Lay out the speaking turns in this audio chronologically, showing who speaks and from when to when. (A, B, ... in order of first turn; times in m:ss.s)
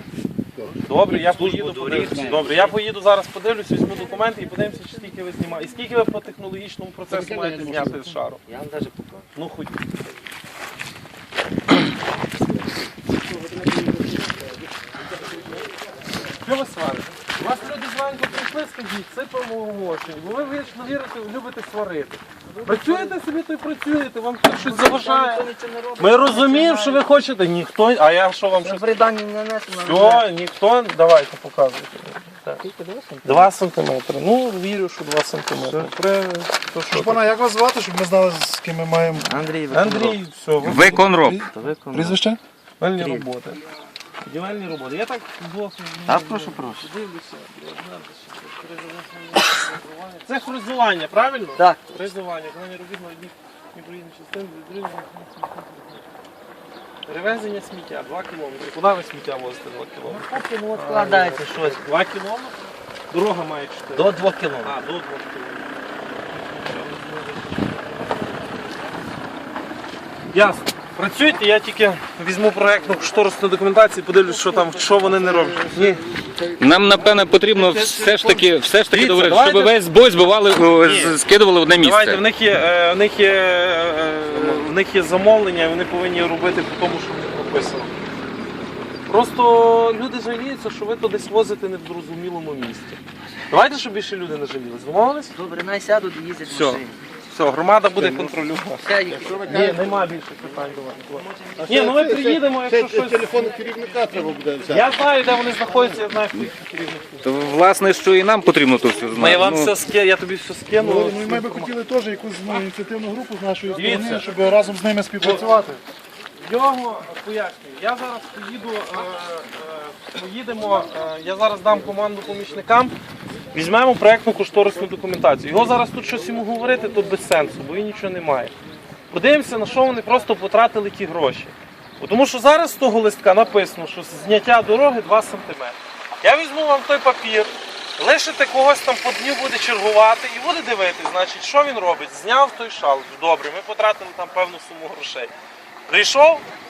0:00.6-0:02.8 A
0:00.9-0:08.4 B
0:07.1-0:09.3 A
0:09.4-0:10.2 B
0:16.4-0:25.5 B
0:22.6-0:23.2 A
0:24.4-0:27.1 A
0:26.0-0:29.0 B
0:28.6-0:30.3 A
0:29.8-0:32.6 B
0:32.6-0:33.5 A
0:33.2-0:37.2 B
0:35.6-0:35.9 A
0:36.9-0:39.3 C
0:39.2-0:40.2 A
0:39.7-0:41.0 B
0:40.6-0:41.4 D
0:41.2-0:42.4 C
0:41.4-0:42.2 A
0:42.8-0:43.6 B
0:42.9-0:43.3 A
0:44.2-0:56.0 B
0:46.1-0:46.9 A
0:51.6-0:52.1 A
0:57.1-1:05.7 B
1:00.0-1:02.0 A
1:03.9-1:04.8 A
1:06.3-1:08.0 B
1:10.3-1:16.0 B
1:15.0-1:16.4 E
1:16.6-1:22.2 D
1:17.4-1:19.8 B
1:20.8-1:21.2 B
1:21.8-1:28.0 B
1:29.1-1:35.3 B
1:35.3-1:37.0 A
1:36.5-1:43.5 B
1:38.0-1:39.8 A
1:39.5-1:39.7 E
1:41.1-1:41.9 A
1:41.6-1:45.0 E
1:44.7-1:47.2 B
1:47.2-1:49.7 D
1:49.2-1:51.7 B
1:50.8-1:55.8 C
1:53.8-1:54.3 B
1:55.2-1:55.5 B
1:56.4-2:02.9 B
2:03.5-2:08.5 B
2:09.1-2:25.3 B
2:25.9-2:26.4 B